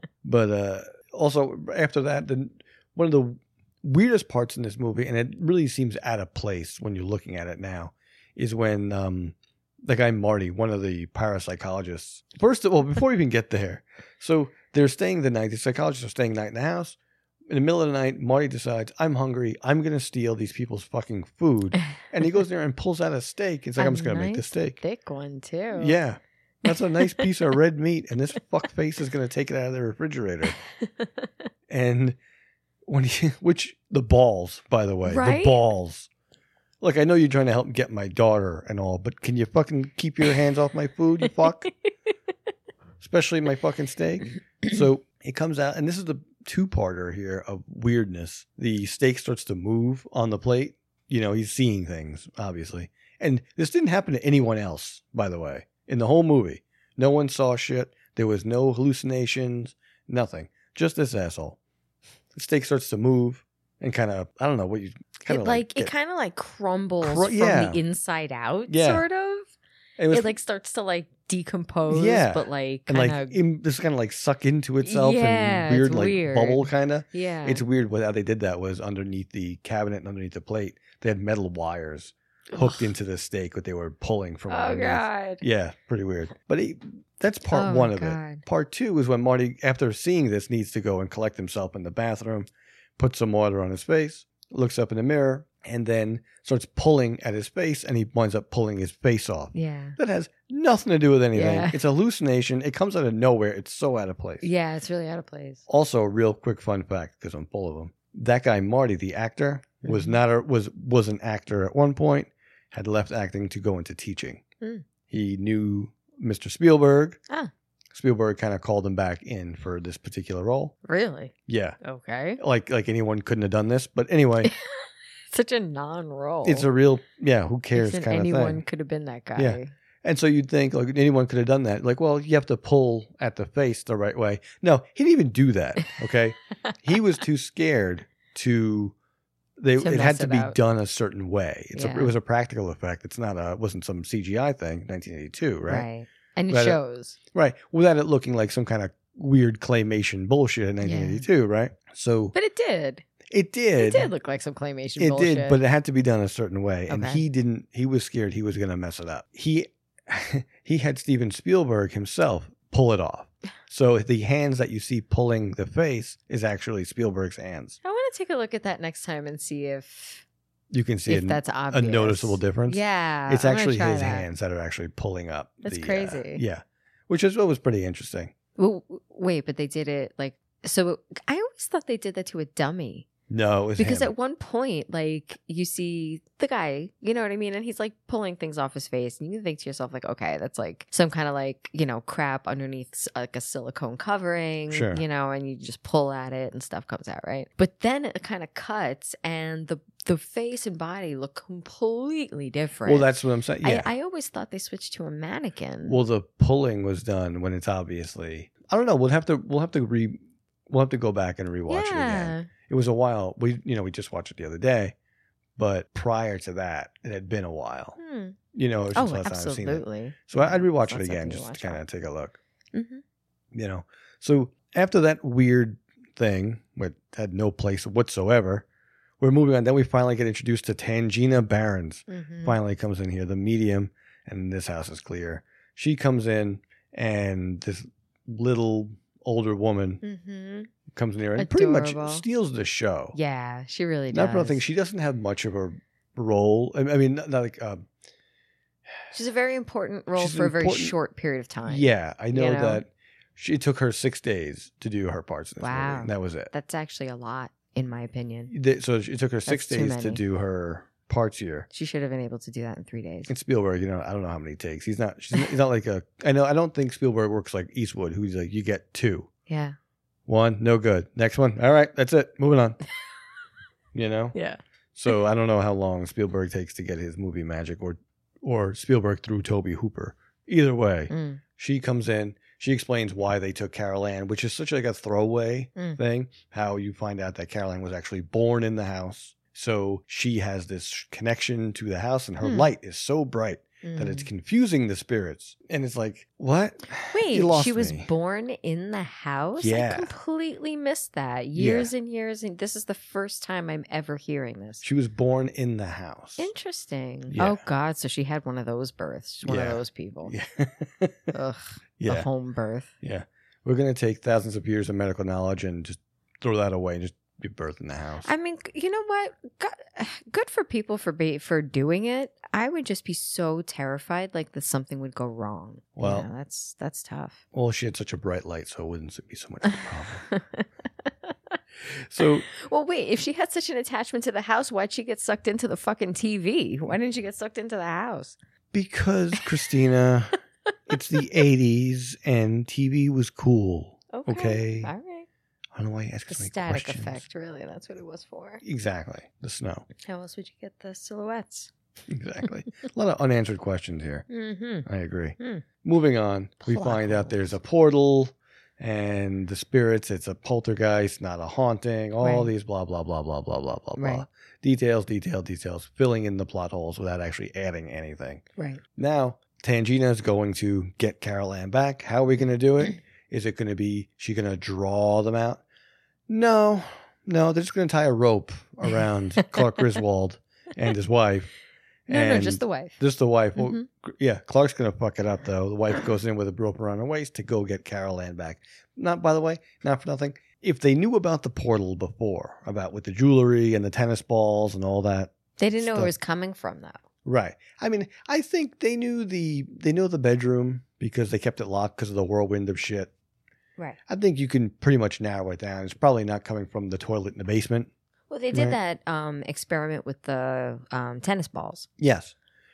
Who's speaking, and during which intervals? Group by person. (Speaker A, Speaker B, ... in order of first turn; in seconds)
Speaker A: 0.2-16.9, 17.5-24.8, 25.7-30.6, 31.7-32.2, 32.9-36.1, 36.8-41.7, 43.0-61.6, 62.3-65.9, 67.0-67.8, 68.7-69.0, 70.0-70.3, 71.9-104.5, 105.7-114.4, 115.1-117.2, 117.9-120.7, 121.5-121.8, 122.4-124.5, 126.4-128.6, 129.3-138.9, 139.6-145.9, 146.5-146.8, 147.3-152.3, 153.3-154.1, 155.0-167.8, 170.7-178.3, 183.3-184.1, 194.7-195.0, 202.8-203.9, 205.8-214.9, 215.6-218.0, 218.5-222.4, 223.5-228.6, 229.2-240.0, 240.9-243.2, 244.1-247.8, 250.2-250.9, 251.7-256.5, 258.5-261.7, 263.3-269.3, 270.3-272.8, 273.9-274.3, 274.9-298.1, 299.6-300.1, 301.5-301.9, 304.8-306.5, 307.3-307.6, 309.4-311.3, 312.0-312.3, 313.0-318.3, 326.0-326.3, 327.5-330.2, 331.9-332.4, 338.7-344.9, 345.7-347.2, 348.6-349.9, 352.1-354.2, 354.8-368.4, 368.9-375.6, 376.3-381.5, 382.1-396.1, 397.2-403.1, 404.1-407.9, 412.0-412.3
Speaker B: 23.8-26.0, 26.7-27.2, 35.0-35.6, 65.3-69.5, 70.1-73.4, 74.8-77.6, 82.5-82.8, 84.5-85.4, 87.5-88.4, 99.5-100.0, 101.3-101.8, 104.4-105.6, 109.8-110.1, 120.8-122.4, 124.4-126.7, 127.7-129.7, 139.8-140.6, 141.7-142.1, 145.7-147.2, 150.8-151.2, 152.3-153.0, 153.8-155.6, 156.9-157.2, 167.8-170.2, 171.1-174.2, 175.6-176.4, 178.6-183.1, 183.8-206.0, 211.7-212.5, 218.0-218.4, 218.9-221.8, 222.7-223.0, 232.1-232.6, 240.0-240.7, 241.4-242.2, 243.1-244.6, 249.1-252.8, 255.6-258.5, 259.4-260.2, 261.7-263.3, 269.5-269.8, 274.3-275.1, 281.1-281.4, 292.4-292.7, 293.8-294.3, 297.1-304.8, 306.4-310.3, 311.3-312.9, 318.2-327.4, 330.3-331.3, 332.5-338.4, 344.1-345.3, 346.3-348.6, 350.0-351.7, 354.3-354.9, 355.4-355.6, 356.6-357.5, 362.2-362.5, 364.0-364.2, 382.1-383.0, 383.6-383.9, 395.6-397.0, 408.3-411.9